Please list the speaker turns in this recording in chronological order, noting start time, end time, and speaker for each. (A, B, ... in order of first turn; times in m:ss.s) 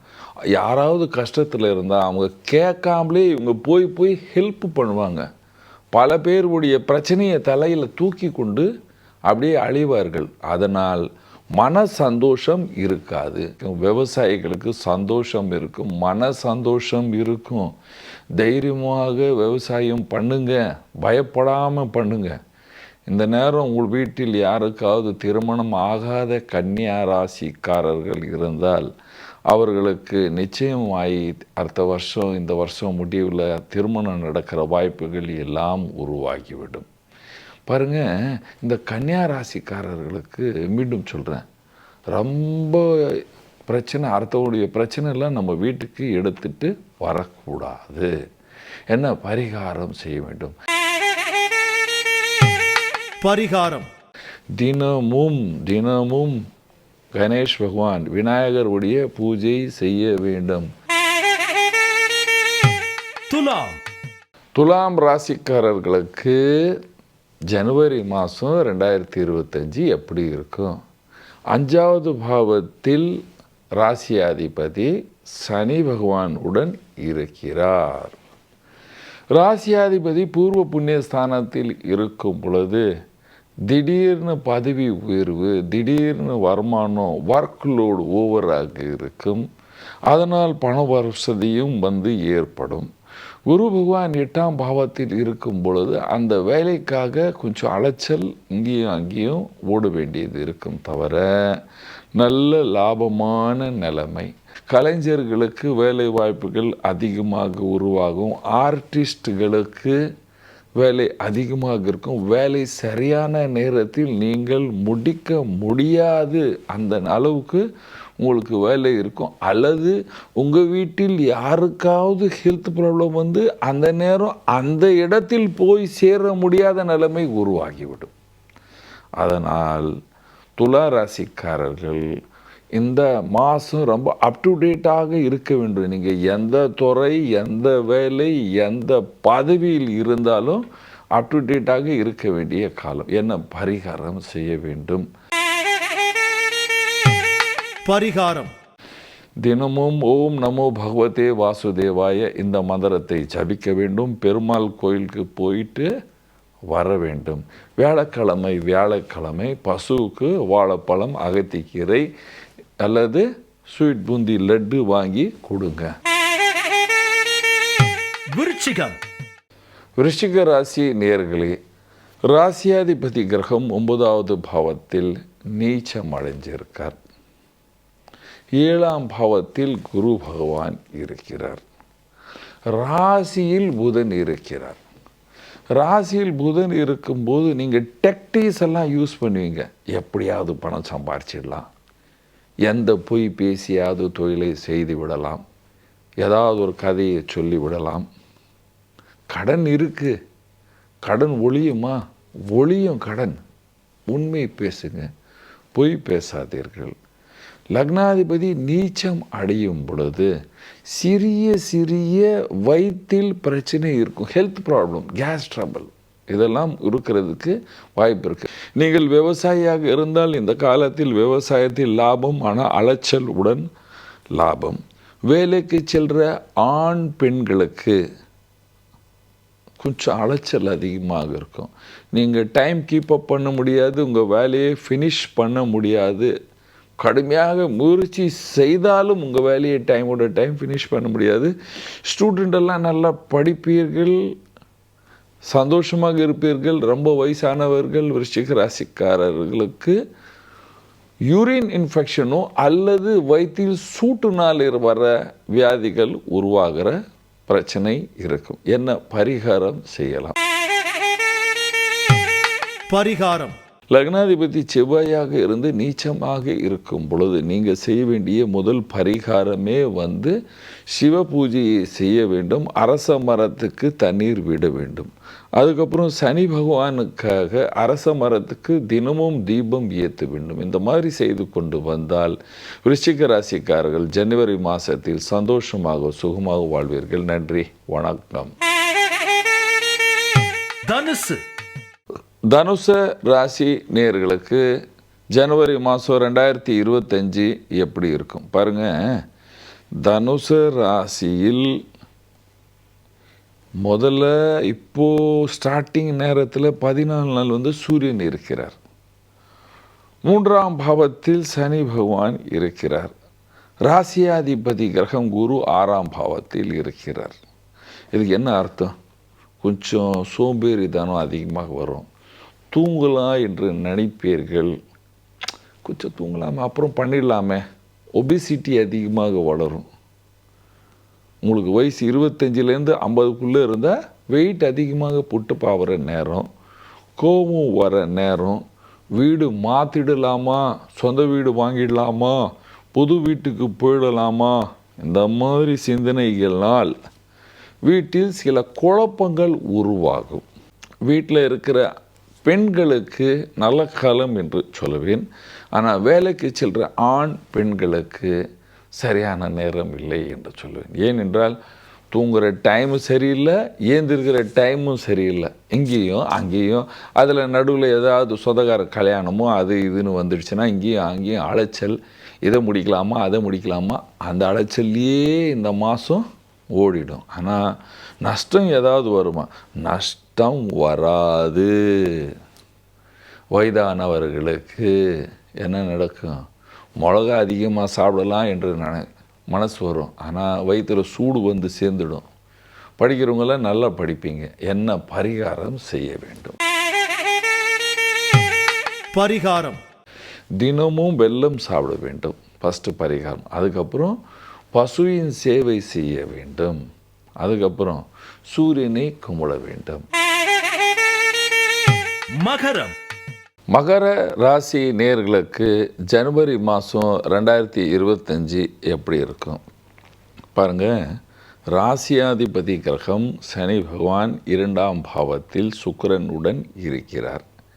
0:00.6-0:05.2 A
0:05.9-0:08.7 A
0:09.3-0:17.7 A
0:18.4-0:22.4 A
0:23.1-0:28.9 A
0:29.5-0:36.8 A
0:37.7-0:38.0 A
0:38.6-0:41.4 A
0:42.1-0:48.1 A
0:48.9-0:50.5 A
0:53.2-0:53.9 B
0:54.6-0:56.4 A
0:57.2-1:00.7 A
1:03.3-1:03.7 C
1:03.3-1:03.7 B
1:04.6-1:06.8 A
1:07.5-1:10.8 A
1:11.5-1:13.2 A
1:13.8-1:18.2 A
1:19.3-1:22.8 A
1:23.7-1:29.4 A
1:30.1-1:32.9 A
1:33.5-1:41.6 A
1:42.2-1:50.0 A
1:50.8-1:57.6 A
1:58.2-2:08.1 A
2:09.2-2:09.9 A
2:10.6-2:12.1 A
2:12.8-2:20.6 A
2:21.2-2:25.0 A
2:27.8-2:28.5 B
2:29.4-2:35.9 A
2:36.7-2:42.1 A
2:42.8-2:45.9 A
2:48.3-2:48.9 C
2:50.0-2:51.6 A
2:52.3-2:57.0 A
2:58.6-3:01.6 A
3:02.7-3:04.8 A
3:05.8-3:11.7 A
3:12.7-3:15.4 A
3:16.2-3:18.0 A
3:19.3-3:20.1 A
3:21.0-3:22.0 A
3:22.5-3:23.4 A
3:24.1-3:25.1 A
3:25.7-3:26.9 A
3:27.7-3:30.3 A
3:30.9-3:43.7 A
3:44.3-3:48.0 A
3:49.8-3:56.3 A
3:57.0-4:01.5 A
4:02.0-4:04.2 A
4:05.5-4:10.0 A
4:11.3-4:17.0 A
4:17.5-4:20.3 A
4:22.9-4:23.6 B
4:23.9-4:30.4 A
4:30.9-4:48.5 A
4:50.9-4:51.4 C
4:52.5-4:54.6 A
4:55.3-4:59.2 A
5:00.0-5:01.8 A
5:03.8-5:08.8 A
5:10.2-5:13.1 A
5:13.8-5:17.4 A
5:18.1-5:18.9 A
5:19.6-5:22.0 A
5:22.7-5:24.8 A
5:25.8-5:27.6 A
5:28.2-5:29.8 A
5:31.4-5:36.5 A
5:37.2-5:38.6 A
5:39.2-5:46.9 A
5:47.8-5:50.4 A
5:51.1-5:51.8 A
5:52.4-5:58.3 A
5:59.0-6:01.6 A
6:02.1-6:16.2 A
6:16.8-6:17.6 A
6:18.2-6:22.3 A
6:23.5-6:24.9 A
6:25.6-6:26.4 A
6:27.0-6:32.2 A
6:33.0-6:36.6 A
6:39.1-6:39.8 B
6:40.6-6:44.2 A
6:44.7-6:46.8 A
6:47.4-6:50.0 A
6:52.4-6:52.9 C
6:53.7-6:59.6 A
7:00.5-7:00.9 A
7:01.7-7:07.4 A